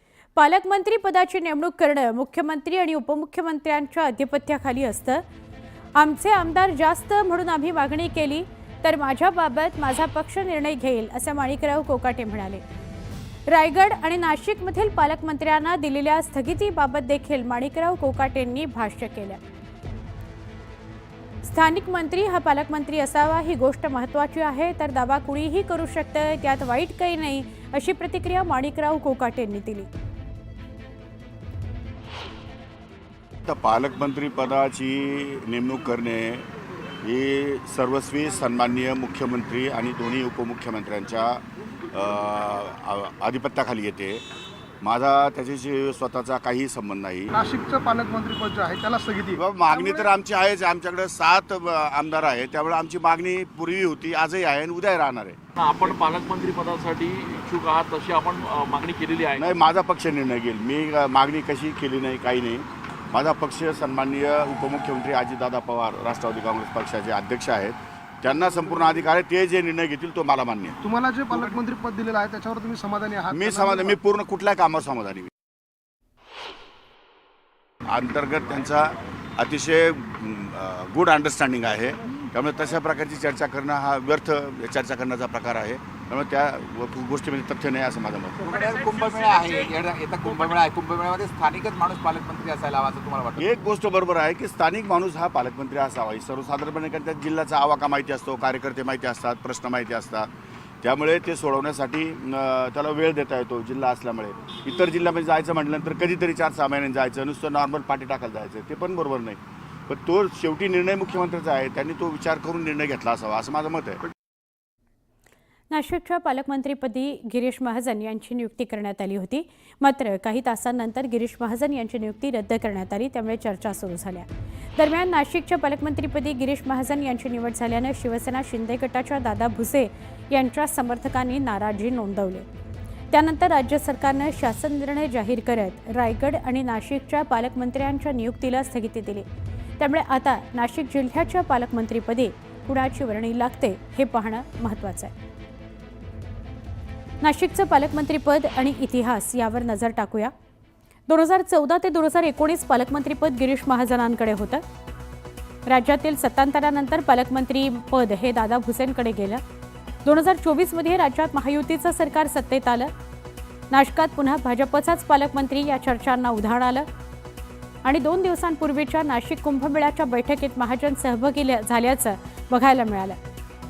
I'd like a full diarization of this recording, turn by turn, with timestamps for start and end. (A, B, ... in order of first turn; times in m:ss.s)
0:00.4-0:05.2 A
0:06.0-0:12.6 A
0:13.5-0:19.4 A
0:21.4-0:29.9 A
0:33.5-0:36.5 B
0:37.0-0:44.2 B
0:44.8-0:47.3 B
0:47.3-0:49.4 C
0:49.4-0:55.4 B
0:55.6-0:59.6 D
0:59.4-1:10.8 B
1:10.8-1:14.0 C
1:13.3-1:15.3 B
1:17.9-1:28.4 B
1:28.4-1:33.5 E
1:28.9-1:29.6 D
1:33.4-1:40.3 B
1:40.8-1:54.0 B
1:55.7-2:12.4 A
2:13.1-2:19.2 A
2:19.8-2:25.1 A
2:27.2-2:30.3 A
2:31.1-2:34.6 A
2:35.7-2:39.4 A
2:40.0-2:42.9 A
2:43.7-2:46.9 A
2:47.8-2:53.2 A